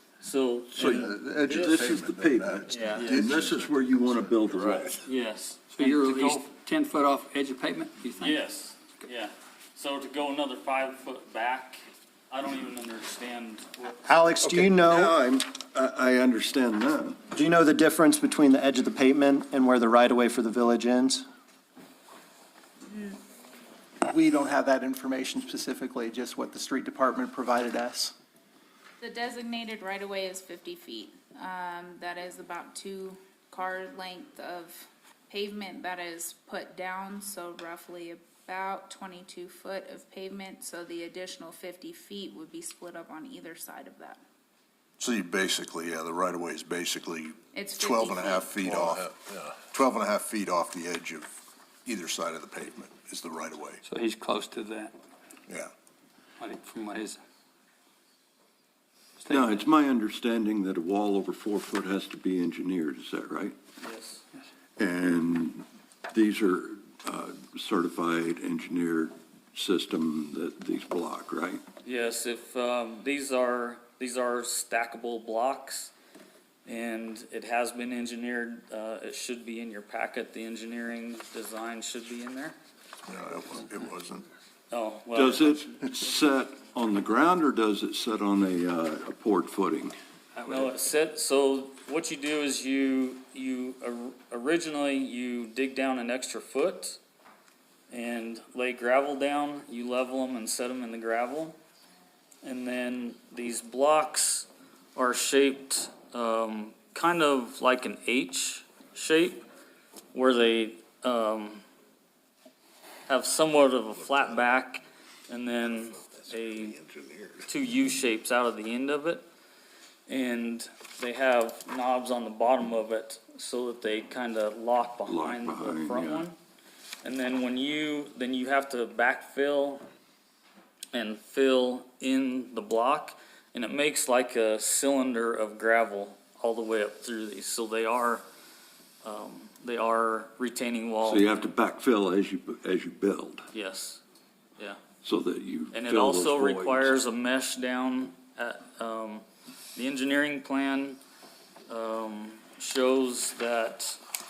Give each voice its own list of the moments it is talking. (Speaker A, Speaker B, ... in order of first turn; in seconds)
Speaker A: 0.2-1.1, 2.7-3.4, 5.0-6.5, 8.2-14.0, 63.8-64.2, 71.8-75.9, 76.7-82.6, 84.7-85.8, 90.4-97.0, 97.9-101.6, 102.4-109.5, 110.1-111.6, 113.1-116.8, 117.5-119.2, 120.1-126.4, 127.0-129.8, 130.9-138.2, 139.0-141.3, 143.5-144.0, 145.7-149.2, 149.8-151.0, 151.7-154.0
Speaker B: 0.8-5.0, 14.4-17.2, 59.3-63.5, 64.8-71.6, 85.1-90.0, 125.1-126.3, 141.1-143.5, 145.0-147.0
Speaker C: 0.8-4.9, 45.0-51.3, 51.9-53.8, 83.1-84.2
Speaker D: 5.7-8.4, 53.9-54.9, 56.4-57.2, 59.2-59.6
Speaker E: 14.0-15.2, 17.3-21.2
Speaker F: 22.9-23.2, 29.0-44.2, 47.5-48.7
Speaker G: 24.1-28.1